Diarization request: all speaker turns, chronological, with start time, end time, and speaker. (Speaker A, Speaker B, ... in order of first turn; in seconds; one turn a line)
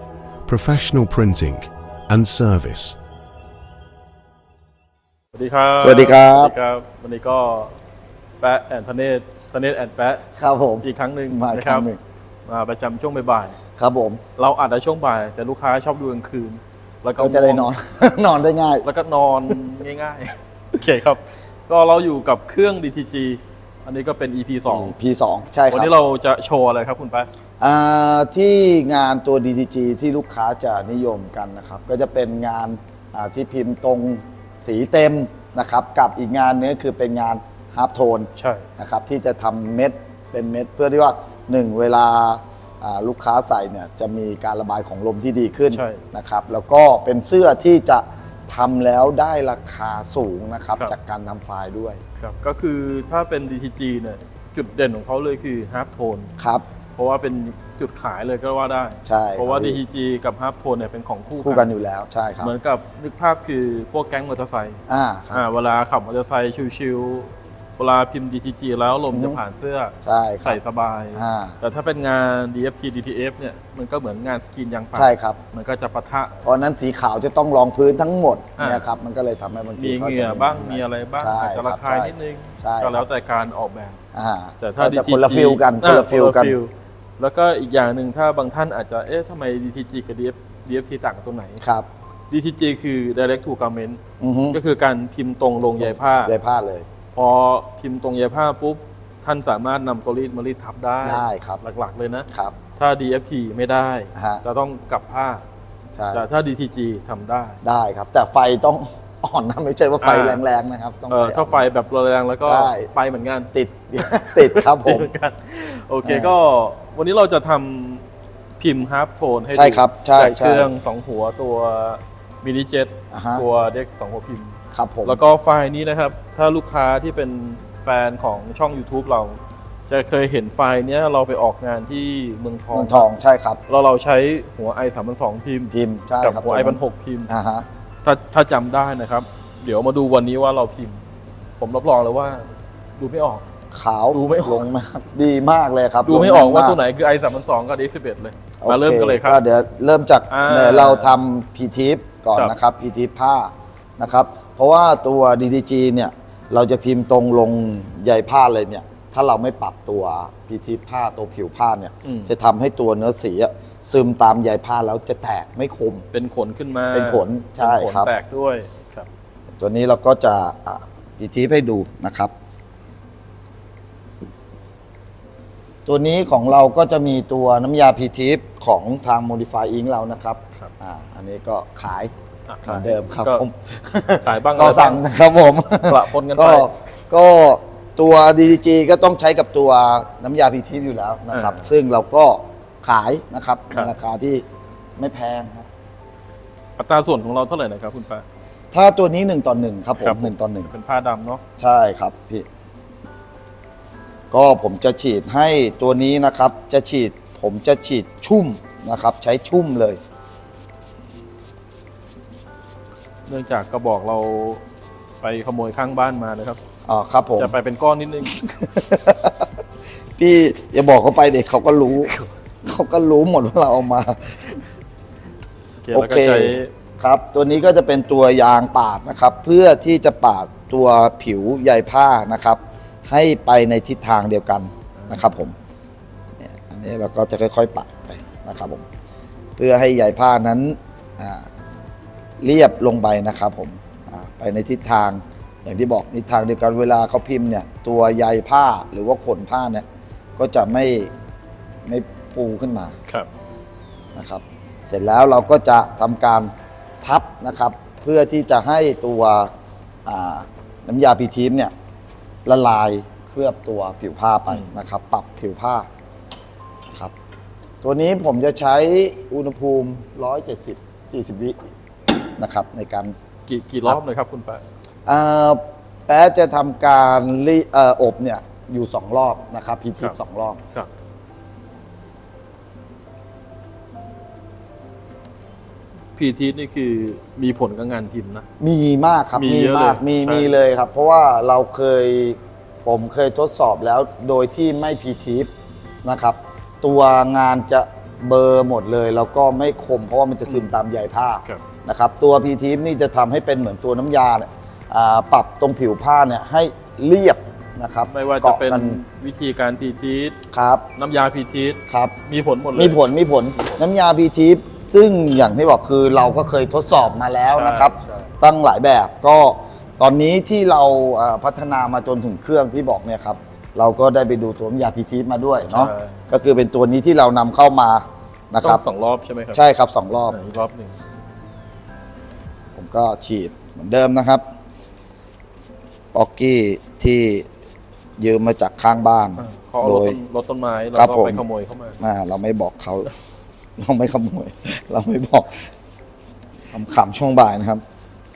Speaker A: 0.5-3.0
Speaker B: 5.3-7.8
Speaker C: 5.8-6.5
Speaker B: 8.4-10.3
Speaker C: 10.4-12.0
Speaker B: 10.8-11.9
Speaker B: 12.5-13.6
Speaker C: 13.8-14.2
Speaker B: 14.4-17.7
Speaker C: 17.2-18.9
Speaker B: 18.8-24.9
Speaker C: 24.7-25.9
Speaker B: 25.7-27.3
Speaker C: 27.6-52.0
Speaker B: 38.4-38.7
Speaker B: 45.7-46.0
Speaker B: 52.2-56.3
Speaker C: 56.4-56.6
Speaker B: 57.0-61.7
Speaker C: 59.0-59.8
Speaker C: 61.4-62.5
Speaker B: 62.4-76.4
Speaker C: 64.9-65.4
Speaker C: 69.1-69.4
Speaker C: 70.0-70.6
Speaker C: 71.1-71.6
Speaker C: 74.9-75.4
Speaker C: 76.4-83.0
Speaker B: 78.6-78.9
Speaker B: 79.8-84.0
Speaker C: 84.1-86.6
Speaker B: 84.6-91.6
Speaker C: 91.6-91.9
Speaker B: 92.3-94.0
Speaker C: 94.2-94.6
Speaker B: 94.5-96.3
Speaker C: 95.8-96.9
Speaker B: 97.1-105.4
Speaker C: 101.0-101.6
Speaker C: 102.3-102.6
Speaker C: 104.2-104.4
Speaker C: 106.0-106.3
Speaker B: 106.1-107.6
Speaker C: 107.6-111.7
Speaker B: 110.0-110.4
Speaker B: 111.1-118.0
Speaker C: 112.5-112.9
Speaker C: 113.5-115.1
Speaker C: 116.0-116.3
Speaker B: 118.6-133.1
Speaker C: 119.5-120.7
Speaker C: 123.1-123.4
Speaker C: 124.7-125.2
Speaker C: 132.7-133.6
Speaker B: 133.7-137.3
Speaker C: 135.7-137.7
Speaker B: 138.0-141.0
Speaker B: 141.6-143.4
Speaker C: 143.7-146.8
Speaker B: 144.1-144.7
Speaker B: 146.0-149.4
Speaker C: 148.6-166.1
Speaker B: 150.3-151.2
Speaker B: 162.1-162.3
Speaker B: 166.1-169.1
Speaker C: 166.9-168.1
Speaker C: 169.6-172.3
Speaker C: 175.9-182.1
Speaker B: 182.5-183.4
Speaker C: 182.7-194.4
Speaker B: 184.2-185.1
Speaker B: 185.8-186.7
Speaker B: 191.3-191.7
Speaker B: 193.7-194.0
Speaker C: 195.0-195.7
Speaker B: 196.8-198.2
Speaker C: 198.7-200.7
Speaker B: 200.0-201.4
Speaker C: 201.6-202.5
Speaker C: 204.3-210.0
Speaker B: 213.3-214.6
Speaker B: 215.2-216.6
Speaker C: 216.9-217.6
Speaker B: 217.4-218.4
Speaker C: 218.2-219.5
Speaker C: 220.2-224.6
Speaker B: 225.8-226.7
Speaker C: 225.9-235.6
Speaker B: 235.0-235.3
Speaker C: 236.4-238.8
Speaker C: 239.6-241.5
Speaker C: 242.4-249.8
Speaker C: 250.4-251.1
Speaker C: 251.9-253.0
Speaker C: 254.1-256.5
Speaker C: 257.0-259.5
Speaker C: 260.1-261.7
Speaker C: 262.4-265.9
Speaker C: 267.8-271.6
Speaker C: 272.4-273.1
Speaker B: 273.5-274.6
Speaker C: 275.1-280.6
Speaker B: 286.2-288.5
Speaker C: 288.6-295.5
Speaker B: 289.4-290.6
Speaker C: 296.0-309.0
Speaker B: 300.5-300.7
Speaker B: 308.1-310.4
Speaker C: 310.5-310.9
Speaker B: 311.0-313.0
Speaker C: 311.9-312.1
Speaker C: 312.8-328.8
Speaker B: 317.5-318.3
Speaker B: 325.7-326.2
Speaker B: 328.6-329.6
Speaker C: 329.5-330.4
Speaker B: 330.3-331.0
Speaker C: 332.8-334.4
Speaker C: 336.1-337.5
Speaker C: 338.2-340.2
Speaker B: 339.4-342.0
Speaker C: 340.9-341.4
Speaker C: 342.0-343.1
Speaker C: 343.8-345.7
Speaker C: 346.7-347.8